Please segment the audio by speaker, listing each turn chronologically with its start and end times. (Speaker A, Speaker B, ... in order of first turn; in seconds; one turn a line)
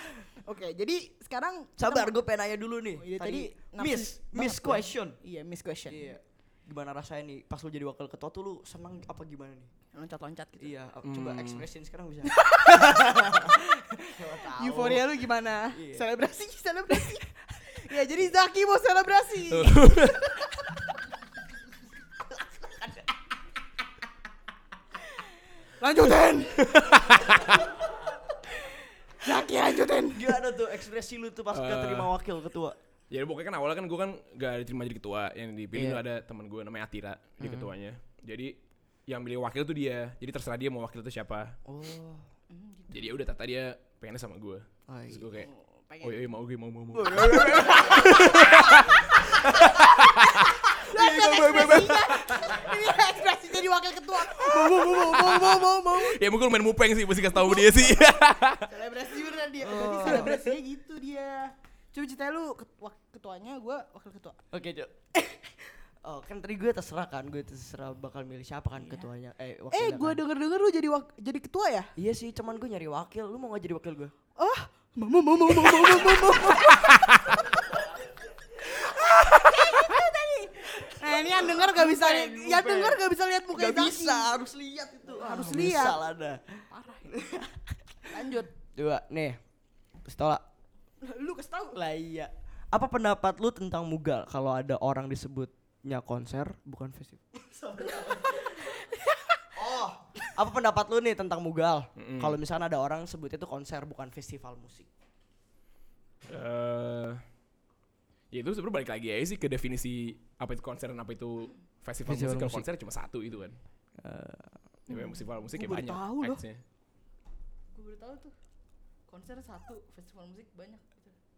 Speaker A: 0.3-2.1
Speaker B: 1.8-5.2
Speaker A: 3.0-6.2
Speaker B: 5.9-9.7
Speaker A: 9.9-10.7
Speaker B: 10.6-15.2
Speaker C: 11.0-11.7
Speaker A: 12.3-20.7
Speaker B: 15.7-16.1
Speaker C: 19.5-20.2
Speaker B: 22.5-23.0
Speaker A: 25.8-27.5
Speaker C: 26.7-27.5
Speaker A: 29.2-30.4
Speaker B: 30.1-32.8
Speaker C: 31.5-32.1
Speaker C: 33.1-38.5
Speaker B: 35.7-36.0
Speaker B: 37.4-37.7
Speaker C: 39.1-41.6
Speaker B: 41.7-42.3
Speaker A: 42.5-43.2
Speaker C: 42.9-45.5
Speaker B: 44.9-45.3
Speaker A: 45.4-46.2
Speaker C: 46.0-50.6
Speaker B: 46.9-49.9
Speaker A: 49.5-56.2
Speaker B: 50.8-52.2
Speaker C: 51.2-52.6
Speaker C: 54.5-58.7
Speaker A: 57.4-57.8
Speaker A: 58.6-64.4
Speaker B: 59.6-60.6
Speaker B: 64.5-70.2
Speaker A: 68.8-69.1
Speaker A: 69.7-71.9
Speaker B: 72.0-74.1
Speaker A: 74.4-77.3
Speaker B: 75.7-76.6
Speaker A: 78.6-84.3
Speaker B: 80.8-87.7
Speaker A: 85.1-86.0
Speaker A: 86.7-87.2
Speaker A: 88.1-88.5
Speaker B: 88.8-89.4
Speaker B: 90.0-90.4
Speaker A: 91.0-91.8
Speaker B: 91.7-98.6
Speaker A: 97.8-99.5
Speaker B: 99.5-104.9
Speaker C: 102.0-102.4
Speaker C: 106.3-107.2
Speaker C: 108.3-113.6
Speaker B: 112.0-112.7
Speaker B: 114.0-114.7
Speaker A: 114.9-116.4
Speaker C: 114.9-116.6
Speaker A: 117.7-118.3
Speaker A: 119.1-121.1